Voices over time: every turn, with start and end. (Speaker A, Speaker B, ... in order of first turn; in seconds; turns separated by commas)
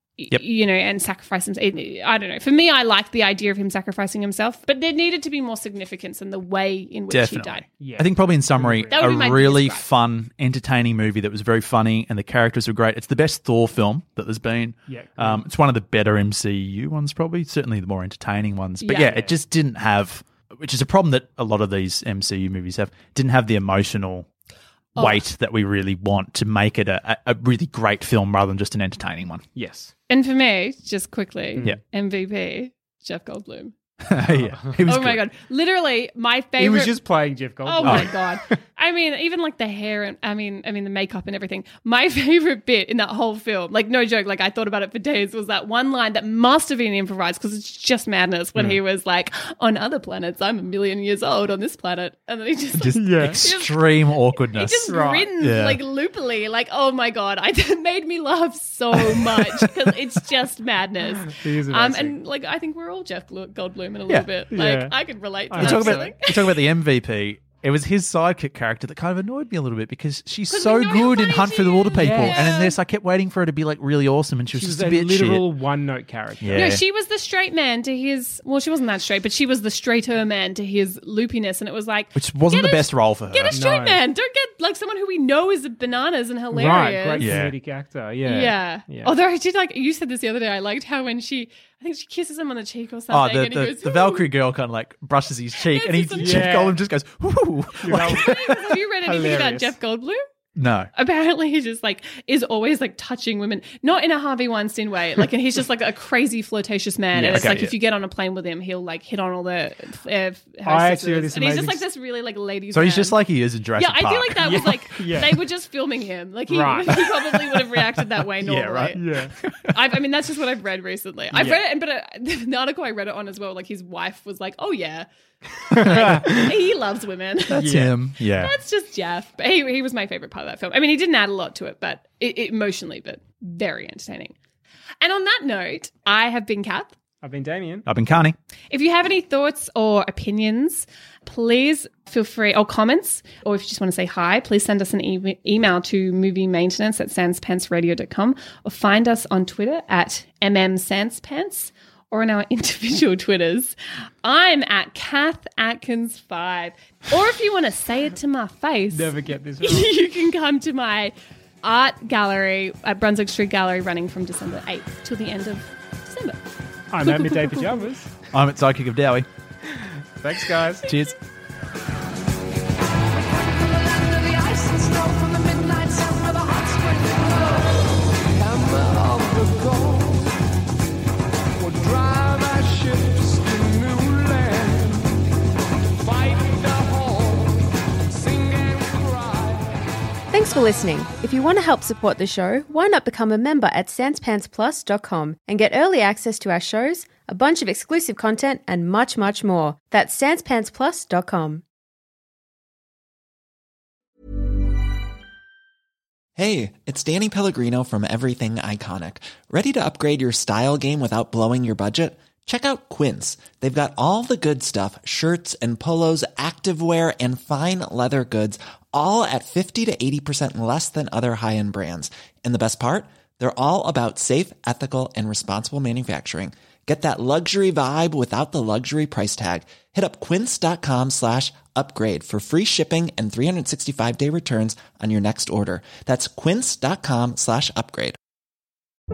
Speaker A: 0.2-7.6, Speaker B: 7.1-24.3, Speaker C: 7.8-9.1, Speaker A: 8.9-9.8, Speaker C: 14.9-15.5, Speaker A: 18.8-19.2, Speaker C: 19.1-19.3, Speaker A: 24.9-25.2, Speaker B: 24.9-29.4, Speaker C: 29.5-29.9, Speaker A: 30.1-33.7, Speaker B: 34.0-35.2, Speaker C: 34.3-34.8, Speaker A: 34.9-37.0, Speaker C: 36.6-38.3, Speaker A: 37.6-53.8, Speaker B: 37.8-38.1, Speaker B: 52.8-55.8, Speaker C: 52.9-53.4, Speaker A: 54.5-66.3, Speaker C: 54.9-55.3, Speaker B: 59.1-59.7, Speaker C: 61.2-62.2, Speaker C: 64.5-65.0, Speaker C: 65.5-66.1, Speaker B: 65.6-75.5, Speaker A: 70.5-72.7, Speaker C: 72.0-72.5, Speaker C: 74.5-76.7, Speaker B: 76.4-76.8, Speaker A: 76.5-87.3, Speaker B: 82.1-83.6, Speaker C: 83.5-84.0, Speaker C: 86.5-89.1, Speaker B: 87.2-87.5, Speaker A: 88.2-94.2, Speaker B: 93.1-98.4, Speaker A: 95.7-96.5, Speaker C: 96.2-96.8, Speaker C: 97.8-99.8, Speaker A: 97.9-100.2, Speaker B: 100.5-100.9, Speaker A: 100.9-113.2, Speaker C: 107.1-107.5, Speaker B: 107.3-107.7, Speaker C: 110.7-111.8, Speaker B: 112.7-114.8, Speaker A: 113.8-119.0, Speaker C: 114.4-115.4, Speaker C: 116.5-117.1, Speaker B: 117.1-117.6, Speaker B: 118.4-119.7, Speaker C: 118.9-119.3, Speaker A: 119.7-125.1, Speaker C: 121.3-121.6, Speaker C: 125.7-126.5, Speaker A: 125.7-127.8, Speaker B: 127.5-128.5, Speaker C: 127.6-127.9, Speaker A: 128.4-134.3, Speaker A: 135.0-136.9, Speaker C: 137.2-137.9, Speaker B: 137.8-138.4, Speaker A: 138.7-166.4, Speaker C: 158.9-159.9, Speaker C: 166.9-168.1, Speaker A: 167.0-167.9, Speaker B: 168.3-169.3, Speaker C: 170.2-170.9, Speaker B: 170.8-171.1, Speaker D: 190.3-201.6, Speaker E: 206.4-238.2